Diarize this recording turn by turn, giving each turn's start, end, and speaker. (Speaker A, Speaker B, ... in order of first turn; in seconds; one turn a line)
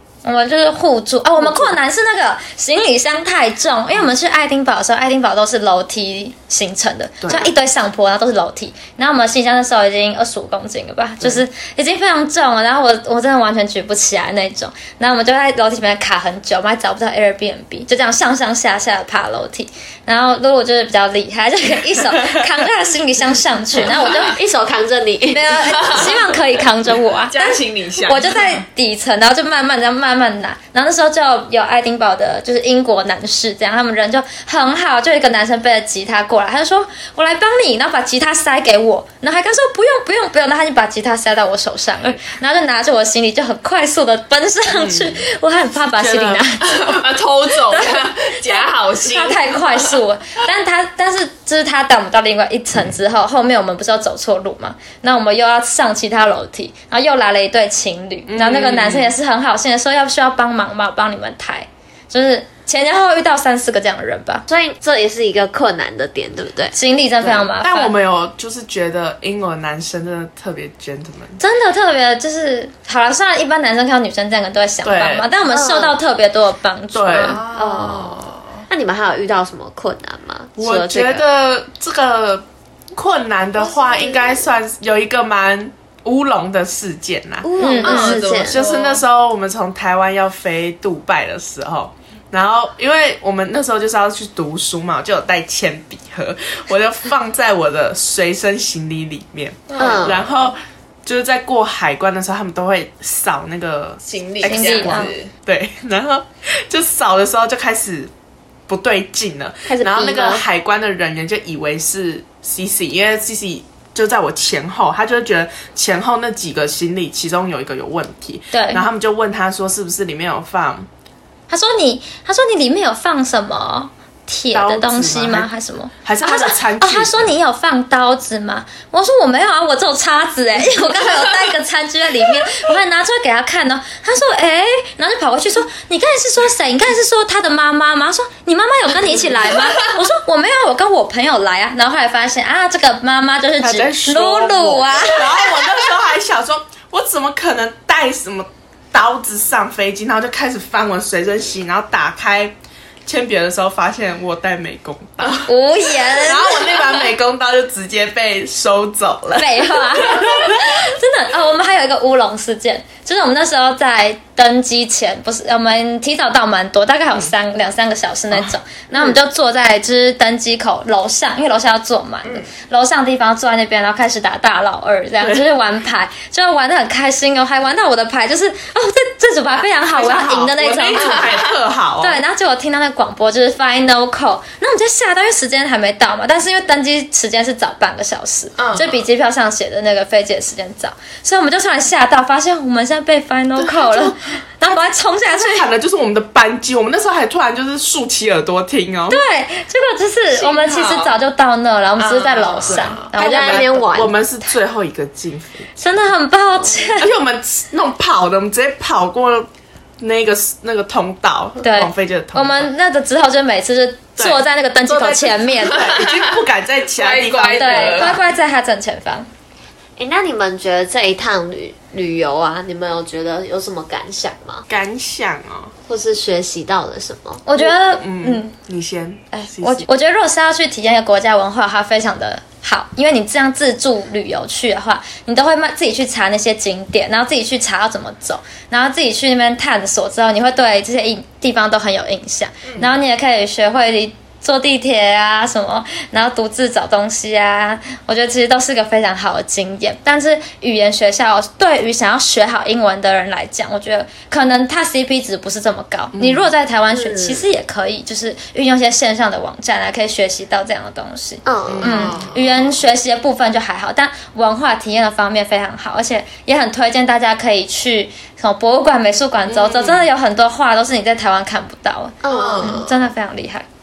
Speaker A: 0.2-24.4
Speaker B: 7.2-7.5
Speaker C: 23.8-25.9
Speaker A: 25.3-47.0
Speaker D: 25.7-26.2
Speaker D: 27.3-28.6
Speaker B: 44.7-45.2
Speaker B: 45.9-46.5
Speaker D: 46.8-50.0
Speaker A: 47.7-64.4
Speaker B: 58.3-59.1
Speaker C: 64.5-66.8
Speaker A: 66.7-68.0
Speaker B: 67.2-71.4
Speaker A: 71.4-77.4
Speaker B: 74.8-75.3
Speaker C: 75.5-76.0
Speaker B: 76.9-77.4
Speaker D: 77.1-78.6
Speaker C: 77.5-81.2
Speaker B: 80.6-87.5
Speaker D: 83.8-84.3
Speaker C: 87.4-88.6
Speaker A: 87.6-88.2
Speaker D: 87.7-89.0
Speaker B: 88.4-108.1
Speaker D: 99.7-100.2
Speaker C: 99.8-100.2
Speaker D: 104.0-105.3
Speaker A: 104.4-105.1
Speaker B: 108.7-120.9
Speaker C: 109.7-110.4
Speaker A: 118.5-118.8
Speaker A: 121.5-145.3
Speaker B: 124.5-125.5
Speaker B: 126.0-127.3
Speaker B: 143.6-152.5
Speaker B: 153.1-155.5
Speaker A: 155.4-156.7
Speaker B: 156.1-160.4
Speaker A: 159.4-181.4
Speaker B: 168.3-169.1
Speaker B: 179.9-182.2
Speaker D: 181.0-181.4
Speaker A: 182.0-195.7
Speaker D: 188.6-189.1
Speaker B: 193.6-199.2
Speaker A: 199.1-203.9
Speaker D: 200.3-201.2
Speaker D: 202.0-203.2
Speaker B: 202.7-205.7
Speaker C: 203.1-204.2
Speaker A: 205.8-207.1
Speaker B: 207.0-209.5
Speaker B: 210.0-212.7
Speaker A: 211.6-215.9
Speaker B: 214.2-218.2
Speaker D: 215.8-216.2
Speaker D: 216.9-218.2
Speaker A: 217.5-219.3
Speaker C: 220.0-224.7
Speaker B: 224.7-225.7
Speaker C: 225.9-227.4
Speaker A: 227.5-228.5
Speaker B: 227.6-229.9
Speaker A: 229.3-273.6
Speaker B: 256.1-256.5
Speaker C: 256.9-257.5
Speaker C: 261.4-261.9
Speaker B: 261.7-262.3
Speaker D: 261.9-262.5
Speaker B: 269.5-270.1
Speaker C: 272.2-272.9
Speaker D: 272.3-272.8